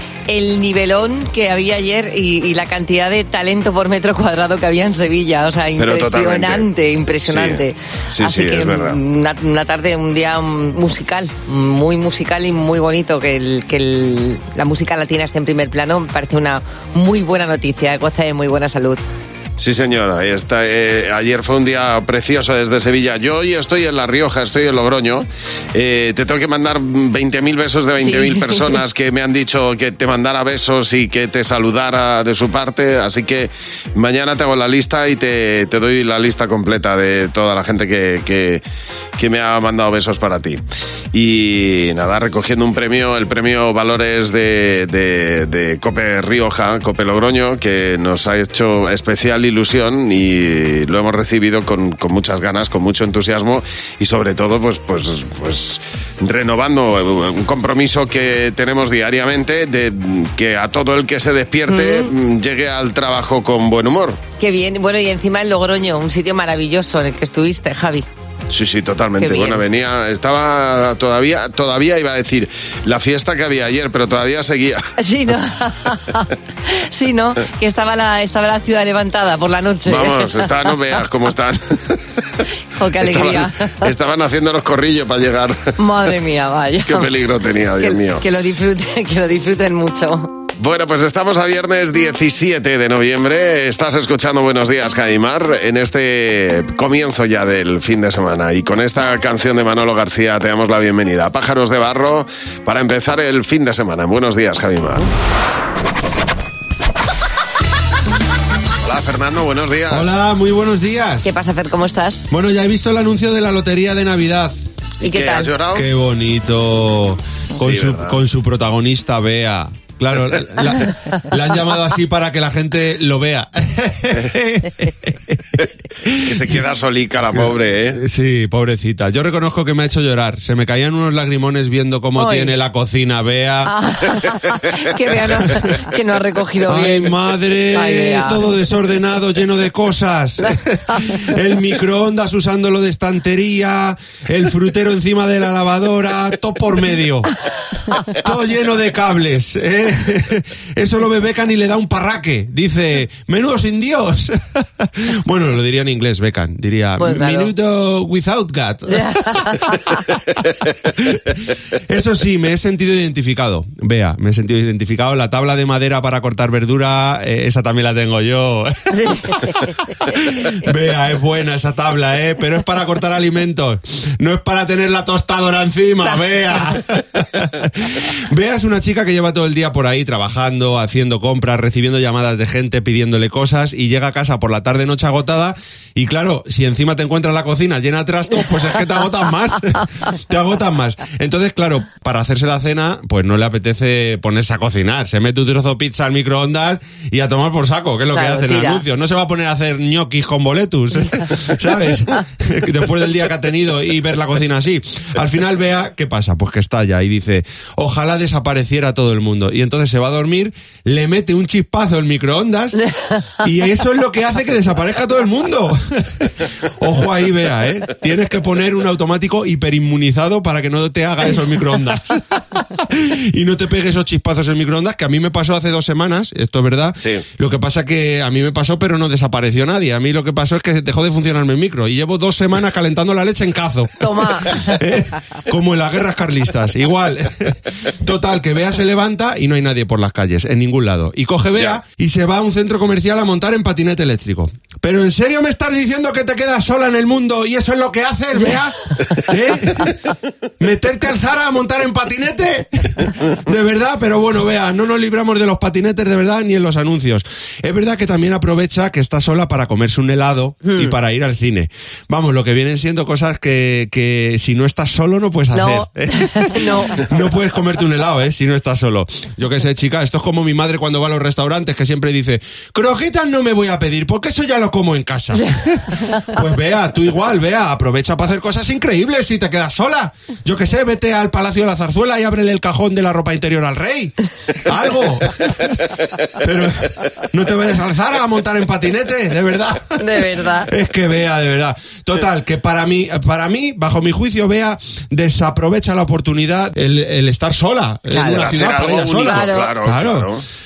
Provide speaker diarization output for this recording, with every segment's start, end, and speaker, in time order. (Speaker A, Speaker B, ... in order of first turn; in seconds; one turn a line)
Speaker A: 0.3-19.0
Speaker B: 5.8-6.7
Speaker B: 7.2-7.6
Speaker B: 8.1-9.0
Speaker B: 19.6-38.6
Speaker A: 28.0-28.7
Speaker B: 39.2-40.6
Speaker B: 41.1-64.2
Speaker A: 61.7-62.1
Speaker A: 64.4-68.0
Speaker B: 68.5-74.9
Speaker A: 69.2-69.6
Speaker A: 75.0-80.3
Speaker B: 79.8-82.0
Speaker A: 82.8-83.9
Speaker B: 83.0-85.7
Speaker A: 85.8-87.1
Speaker B: 86.8-88.2
Speaker A: 87.8-90.4
Speaker B: 90.6-105.1
Speaker B: 108.8-110.1
Speaker C: 109.9-111.3
Speaker A: 111.2-112.2
Speaker C: 112.3-114.6
Speaker A: 115.0-115.5
Speaker B: 115.0-115.9
Speaker C: 115.7-126.2
Speaker B: 117.6-118.2
Speaker B: 126.2-128.0
Speaker C: 127.3-133.7
Speaker A: 132.2-132.5
Speaker A: 133.7-137.2
Speaker C: 136.7-147.3
Speaker A: 137.7-138.4
Speaker C: 148.1-159.5
Speaker A: 157.0-157.5
Speaker A: 158.9-160.0
Speaker C: 161.0-161.3
Speaker C: 161.9-168.7
Speaker A: 168.9-169.6
Speaker C: 170.1-212.8
Speaker A: 176.0-176.6
Speaker A: 198.1-198.8
Speaker C: 213.4-249.9
Speaker A: 234.0-234.7
Speaker C: 250.6-285.5
Speaker A: 260.6-260.9
Speaker A: 265.5-267.0
Speaker A: 276.0-276.3
Speaker C: 286.4-300.3
Speaker A: 290.0-290.7
Speaker A: 298.1-298.6
Speaker B: 298.4-300.4
Speaker A: 299.2-299.7